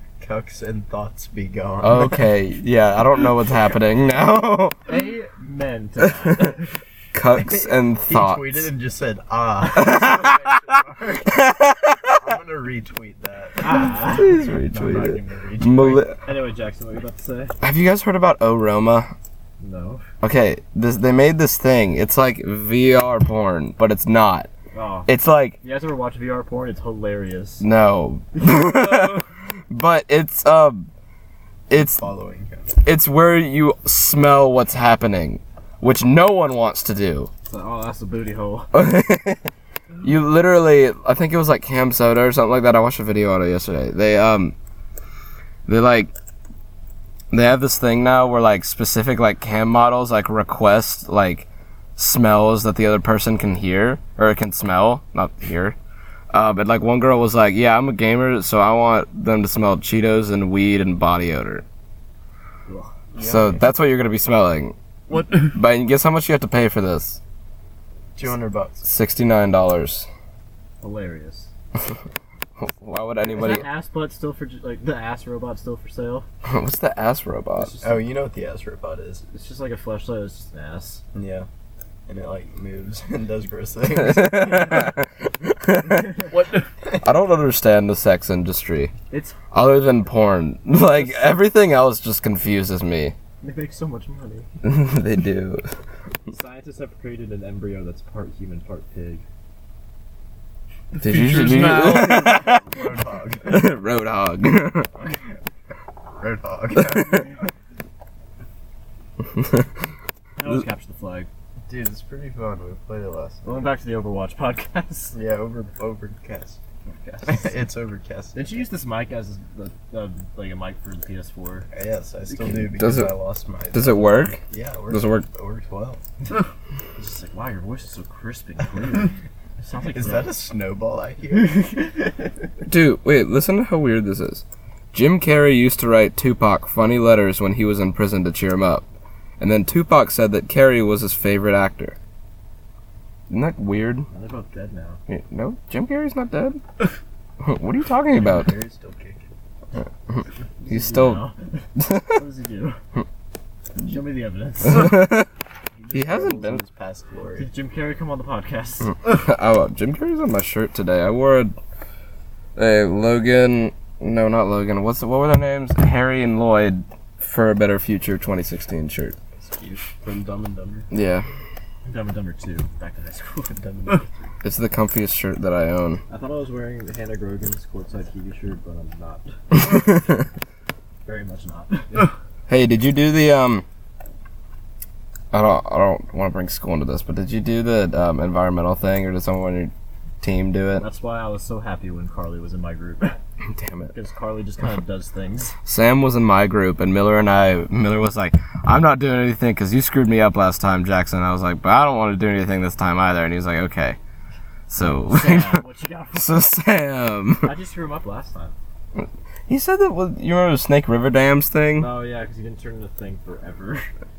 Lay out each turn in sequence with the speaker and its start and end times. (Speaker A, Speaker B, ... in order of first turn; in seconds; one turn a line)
Speaker A: 0.2-2.2
Speaker B: 1.8-4.8
Speaker C: 4.9-6.7
Speaker B: 7.1-8.7
Speaker A: 7.3-11.4
Speaker B: 9.8-10.4
Speaker B: 11.2-12.2
Speaker A: 12.2-14.0
Speaker C: 13.6-17.5
Speaker B: 14.1-16.2
Speaker B: 17.6-19.1
Speaker C: 19.6-20.0
Speaker B: 20.2-24.5
Speaker C: 24.7-25.1
Speaker B: 25.1-25.6
Speaker C: 25.6-27.6
Speaker B: 27.6-30.9
Speaker B: 31.7-32.0
Speaker A: 31.9-32.7
Speaker B: 32.8-37.3
Speaker C: 37.5-38.7
Speaker B: 38.7-39.5
Speaker B: 40.0-44.5
Speaker B: 45.6-46.1
Speaker B: 47.3-55.8
Speaker B: 56.3-61.6
Speaker C: 62.6-62.9
Speaker A: 63.1-63.7
Speaker B: 63.2-64.7
Speaker D: 65.1-65.6
Speaker B: 65.5-67.2
Speaker A: 68.1-68.8
Speaker B: 68.8-70.1
Speaker C: 70.8-71.5
Speaker B: 72.6-73.7
Speaker C: 73.2-76.2
Speaker B: 76.5-77.7
Speaker C: 77.5-78.0
Speaker A: 77.8-79.2
Speaker C: 79.3-81.0
Speaker A: 81.1-81.5
Speaker A: 82.1-84.9
Speaker B: 84.0-86.1
Speaker D: 86.3-86.7
Speaker B: 87.0-88.9
Speaker C: 89.1-89.4
Speaker B: 89.5-93.1
Speaker C: 90.8-91.3
Speaker C: 93.4-94.5
Speaker B: 94.6-95.6
Speaker C: 96.3-99.2
Speaker D: 100.9-102.5
Speaker B: 101.0-102.8
Speaker A: 101.9-103.7
Speaker B: 103.4-104.9
Speaker A: 106.2-107.2
Speaker C: 110.4-111.3
Speaker A: 111.7-113.7
Speaker C: 113.4-115.2
Speaker A: 115.1-116.6
Speaker C: 117.0-117.5
Speaker A: 117.2-118.6
Speaker C: 118.3-121.7
Speaker A: 121.7-126.0
Speaker C: 122.3-122.7
Speaker B: 122.6-123.1
Speaker B: 123.7-125.2
Speaker C: 127.0-130.3
Speaker A: 129.8-131.7
Speaker C: 131.5-132.1
Speaker B: 132.7-138.8
Speaker B: 139.4-141.9
Speaker B: 143.3-144.1
Speaker C: 144.1-145.0
Speaker B: 145.1-146.6
Speaker B: 147.4-148.5
Speaker A: 148.2-149.3
Speaker C: 150.6-151.5
Speaker B: 150.7-151.2
Speaker B: 151.8-152.1
Speaker C: 152.1-152.8
Speaker C: 153.8-155.0
Speaker B: 154.6-155.3
Speaker A: 155.8-157.5
Speaker B: 155.9-156.6
Speaker C: 157.3-158.9
Speaker B: 158.9-161.5
Speaker B: 162.6-169.2
Speaker A: 169.4-170.8
Speaker B: 170.9-171.2
Speaker C: 171.9-173.5
Speaker A: 173.5-174.1
Speaker B: 174.4-176.0
Speaker C: 176.1-179.8
Speaker C: 181.0-182.1
Speaker B: 182.5-183.6
Speaker B: 185.3-190.8
Speaker C: 190.8-193.2
Speaker B: 193.5-193.9
Speaker C: 193.9-195.5
Speaker B: 195.6-204.0
Speaker B: 204.7-205.6
Speaker C: 205.1-206.4
Speaker B: 206.1-207.5
Speaker C: 207.4-208.5
Speaker B: 208.9-211.9
Speaker C: 211.8-213.9